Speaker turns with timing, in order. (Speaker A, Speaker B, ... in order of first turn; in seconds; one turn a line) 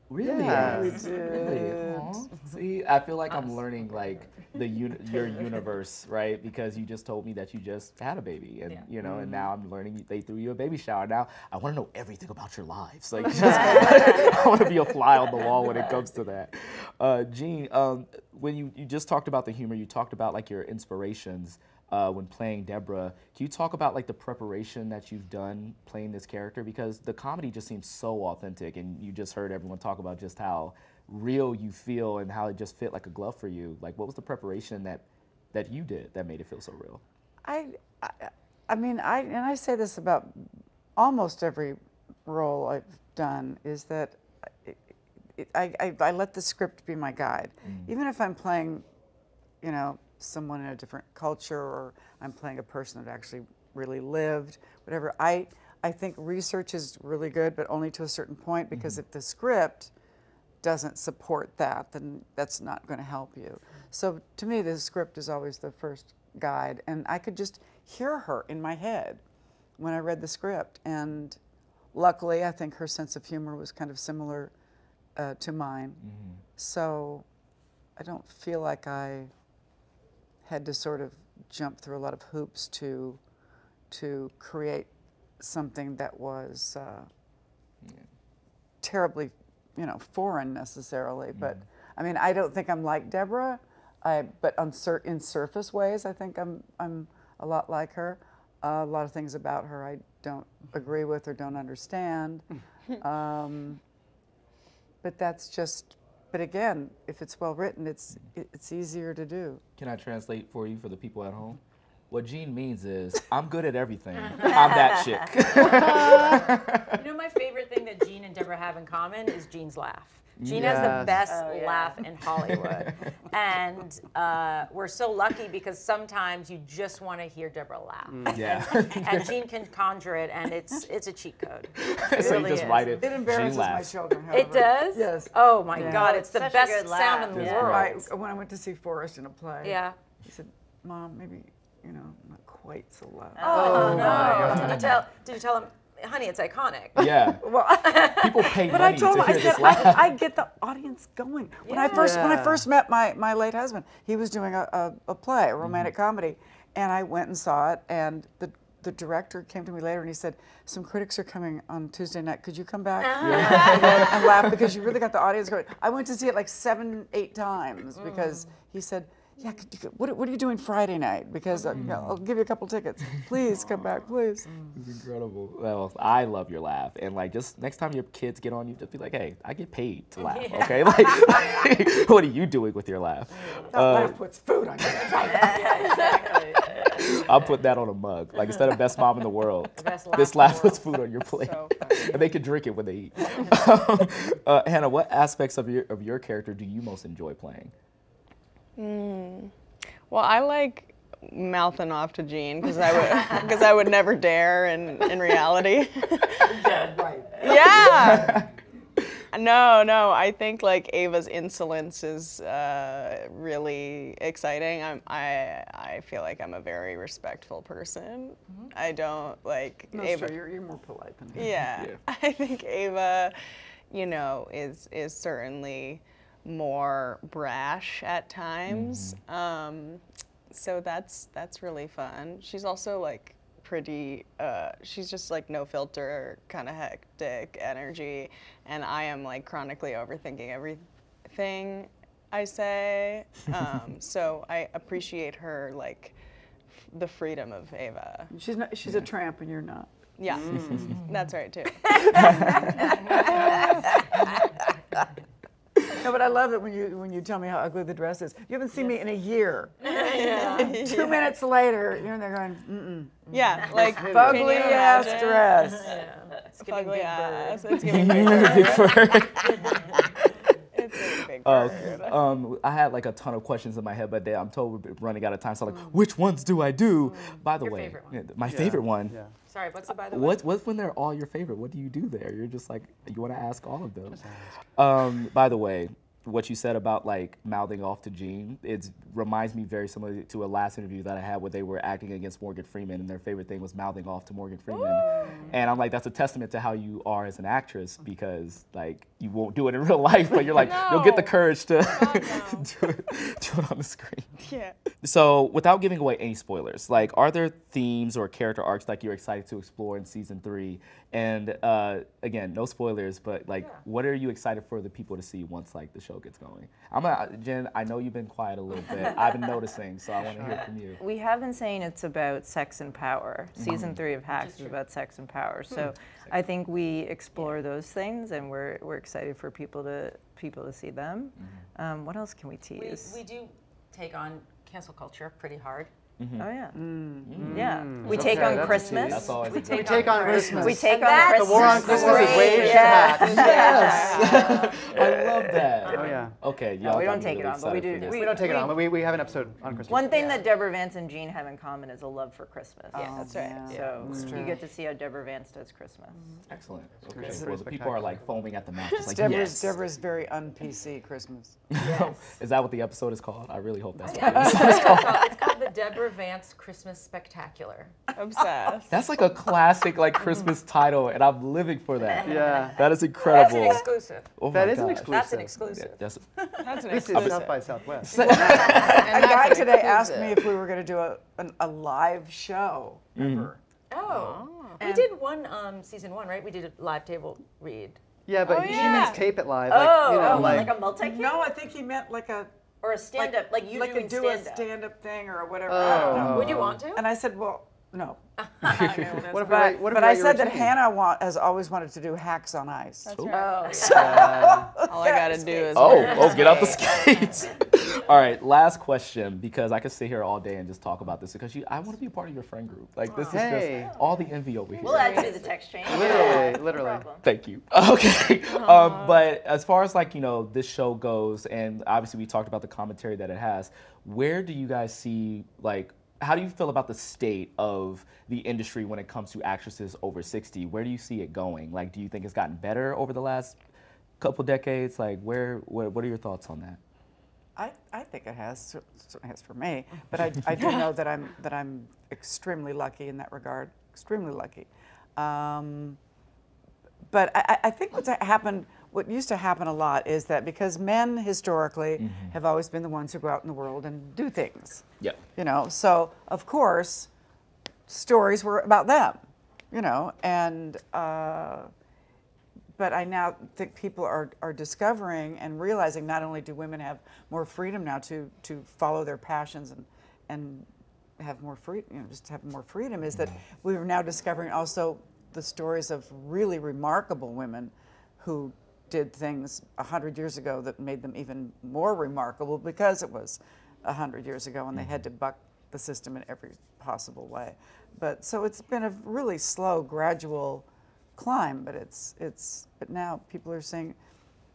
Speaker A: 0.1-37.0
Speaker B: 0.2-1.1
Speaker C: 0.4-2.2
Speaker D: 3.3-3.6
Speaker B: 9.0-9.5
Speaker B: 13.4-13.7
Speaker C: 37.4-48.9
Speaker A: 47.6-47.9
Speaker C: 49.6-59.9
Speaker A: 58.7-59.0
Speaker C: 60.6-69.2
Speaker C: 69.8-71.4
Speaker C: 71.9-74.5
Speaker C: 75.2-76.0
Speaker A: 76.0-76.4
Speaker C: 76.6-77.2
Speaker C: 78.0-79.3
Speaker C: 80.4-83.2
Speaker C: 83.9-87.1
Speaker C: 88.8-102.5
Speaker A: 91.3-91.6
Speaker C: 103.0-103.8
Speaker C: 105.0-109.6
Speaker A: 109.8-117.0
Speaker B: 115.6-116.4
Speaker D: 116.1-133.0
Speaker A: 120.4-121.2
Speaker B: 120.5-121.2
Speaker E: 121.3-122.0
Speaker A: 122.4-122.9
Speaker B: 128.1-128.4
Speaker A: 128.3-129.3
Speaker A: 131.8-133.9
Speaker C: 133.0-136.1
Speaker D: 134.3-138.1
Speaker E: 135.8-137.8
Speaker A: 137.3-137.9
Speaker C: 137.4-144.6
Speaker D: 139.6-139.9
Speaker E: 143.4-144.3
Speaker D: 143.4-147.1
Speaker B: 143.5-144.9
Speaker A: 144.3-145.0
Speaker A: 147.0-147.4
Speaker C: 147.0-174.5
Speaker D: 147.8-148.9
Speaker A: 148.1-150.1
Speaker D: 151.6-152.3
Speaker B: 151.9-152.6
Speaker A: 155.6-155.9
Speaker D: 163.2-164.1
Speaker A: 163.2-164.7
Speaker D: 168.0-168.5
Speaker A: 171.7-172.2
Speaker A: 174.8-184.2
Speaker D: 180.2-181.7
Speaker D: 183.4-183.7
Speaker C: 183.7-186.2
Speaker D: 185.2-187.2
Speaker E: 185.5-186.4
Speaker A: 186.9-197.7
Speaker D: 189.8-191.0
Speaker F: 191.3-192.3
Speaker F: 198.8-199.5
Speaker F: 200.1-206.6
Speaker C: 206.4-208.2
Speaker F: 207.4-208.4
Speaker A: 207.9-208.5
Speaker F: 209.3-220.4
Speaker C: 219.9-221.5
Speaker F: 221.3-223.4
Speaker A: 221.5-222.0
Speaker F: 223.9-246.2
Speaker A: 228.7-229.2
Speaker F: 246.7-248.3
Speaker C: 248.3-249.9
Speaker F: 250.2-252.5
Speaker B: 250.3-251.1
Speaker C: 251.9-253.8
Speaker C: 255.9-266.1
Speaker F: 259.8-261.2
Speaker D: 259.8-260.8
Speaker F: 263.3-265.6
Speaker B: 263.7-264.7
Speaker D: 264.8-268.4
Speaker F: 266.6-269.2
Speaker A: 267.8-270.4
Speaker F: 270.7-272.2
Speaker A: 271.4-279.2
Speaker D: 277.1-278.2
Speaker B: 278.5-279.3
Speaker D: 279.5-280.4
Speaker A: 280.1-284.2
Speaker B: 284.1-284.6
Speaker A: 284.8-304.3
Speaker F: 294.7-295.5
Speaker F: 300.4-302.7
Speaker F: 304.4-304.8
Speaker A: 305.0-321.0
Speaker B: 320.3-320.6
Speaker E: 321.0-333.2
Speaker A: 323.6-324.0
Speaker D: 324.3-324.7
Speaker A: 331.4-331.6
Speaker D: 332.7-335.9
Speaker A: 336.2-336.5
Speaker E: 336.4-336.8
Speaker C: 336.7-337.4
Speaker A: 337.3-340.3
Speaker B: 337.4-343.7
Speaker E: 337.5-339.4
Speaker D: 338.6-346.3
Speaker E: 340.2-344.6
Speaker C: 340.2-340.8
Speaker C: 341.6-342.6
Speaker F: 343.1-344.5
Speaker A: 343.4-348.3
Speaker B: 345.8-346.4
Speaker E: 346.8-349.0
Speaker D: 348.0-348.7
Speaker B: 348.1-350.4
Speaker A: 349.6-350.0
Speaker E: 349.9-356.2
Speaker D: 350.1-350.4
Speaker D: 352.9-353.9
Speaker C: 353.0-354.6
Speaker F: 353.0-354.0
Speaker B: 354.0-354.6
Speaker A: 356.5-359.8
Speaker B: 357.1-358.2
Speaker C: 359.0-361.7
Speaker A: 361.7-365.2
Speaker D: 361.8-362.1
Speaker D: 364.0-368.0
Speaker F: 368.1-369.0
Speaker A: 368.9-376.2
Speaker D: 372.0-374.3
Speaker B: 372.2-372.8
Speaker B: 374.5-375.6
Speaker D: 375.0-376.6
Speaker F: 376.6-377.6
Speaker A: 376.8-377.4
Speaker B: 376.8-378.2
Speaker A: 378.1-379.4
Speaker C: 378.2-383.6
Speaker F: 378.3-380.4
Speaker A: 383.2-383.5
Speaker D: 383.9-388.0
Speaker F: 384.1-384.8
Speaker C: 384.8-385.1
Speaker B: 388.3-390.8
Speaker F: 388.4-389.3
Speaker D: 388.6-389.2
Speaker D: 389.7-391.1
Speaker E: 389.7-391.4
Speaker A: 390.2-390.7
Speaker C: 391.0-392.5
Speaker E: 392.8-394.7
Speaker C: 393.1-398.2
Speaker B: 395.7-396.8
Speaker D: 395.8-397.1
Speaker A: 396.1-396.6
Speaker D: 398.4-399.8
Speaker A: 398.6-399.2
Speaker B: 399.1-400.8
Speaker C: 399.4-403.2
Speaker F: 403.1-403.9
Speaker D: 403.3-404.4
Speaker C: 403.7-405.7
Speaker B: 403.8-404.8
Speaker F: 404.7-406.9
Speaker D: 405.5-407.1
Speaker A: 405.7-415.3
Speaker B: 413.3-413.9
Speaker E: 414.8-417.2
Speaker F: 414.9-415.4
Speaker D: 415.0-415.4
Speaker B: 415.8-417.1
Speaker D: 416.0-416.5
Speaker A: 417.2-433.6
Speaker F: 418.5-419.3
Speaker A: 434.2-436.8
Speaker C: 437.6-446.0
Speaker F: 440.6-440.9
Speaker C: 447.1-457.1
Speaker A: 452.0-452.3
Speaker C: 457.9-461.7
Speaker C: 462.8-494.0
Speaker A: 484.7-485.0